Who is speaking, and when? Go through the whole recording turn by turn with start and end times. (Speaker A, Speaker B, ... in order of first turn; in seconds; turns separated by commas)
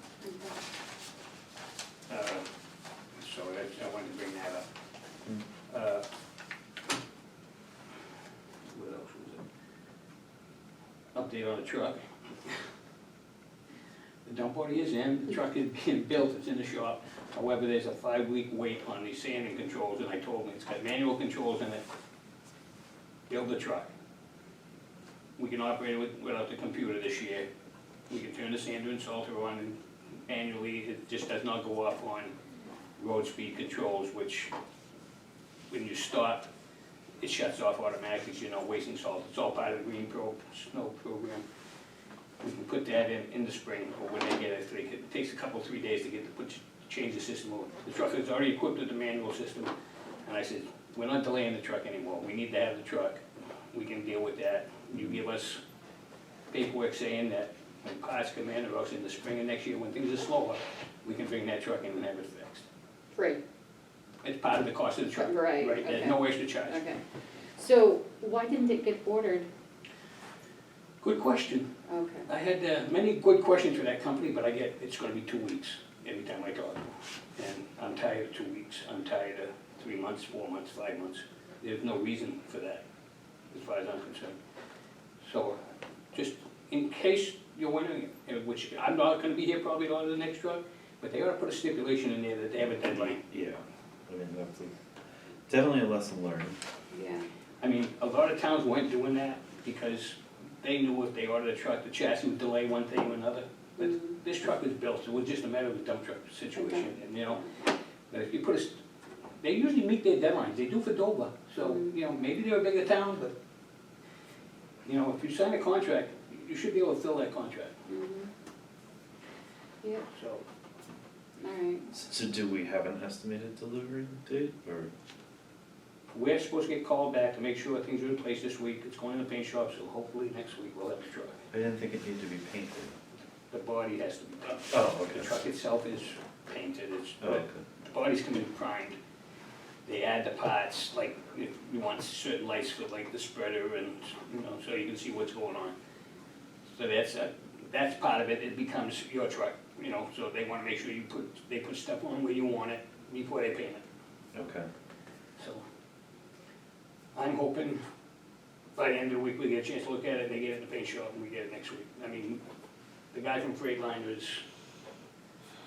Speaker A: 0.2-0.6, Speaker B: 2.1-2.4, Speaker B: 3.1-4.6, Speaker B: 5.7-6.0, Speaker B: 8.7-9.4, Speaker B: 11.1-12.5, Speaker B: 14.2-21.8, Speaker B: 23.3-23.9, Speaker B: 25.4-27.4, Speaker B: 28.1-29.7, Speaker B: 30.3-32.3, Speaker B: 33.0-34.5, Speaker B: 35.7-36.5, Speaker B: 37.2-41.4, Speaker B: 42.4-49.7, Speaker B: 50.2-53.2, Speaker B: 53.7-55.6, Speaker B: 56.5-62.6, Speaker A: 63.1-63.4, Speaker B: 64.2-66.8, Speaker A: 65.1-67.0, Speaker A: 67.5-69.5, Speaker B: 71.0-71.7, Speaker A: 71.9-72.3, Speaker B: 72.2-82.8, Speaker B: 83.5-84.4, Speaker B: 85.2-85.6, Speaker B: 86.1-93.2, Speaker C: 92.8-94.7, Speaker C: 95.5-96.6, Speaker A: 96.9-97.2, Speaker B: 97.6-107.5, Speaker A: 103.8-104.1, Speaker A: 106.6-106.9, Speaker B: 108.1-108.8, Speaker B: 109.4-113.3, Speaker B: 114.8-117.7, Speaker A: 117.9-118.3, Speaker B: 120.1-120.4, Speaker A: 121.4-121.8, Speaker C: 121.9-124.9, Speaker B: 126.1-131.4, Speaker C: 131.5-132.9, Speaker B: 133.5-139.0, Speaker C: 134.7-135.3, Speaker C: 137.2-137.6, Speaker B: 139.8-145.7, Speaker B: 146.7-153.8, Speaker C: 154.3-154.7, Speaker B: 155.4-155.6, Speaker B: 157.2-157.8, Speaker B: 158.8-162.4, Speaker B: 163.1-164.4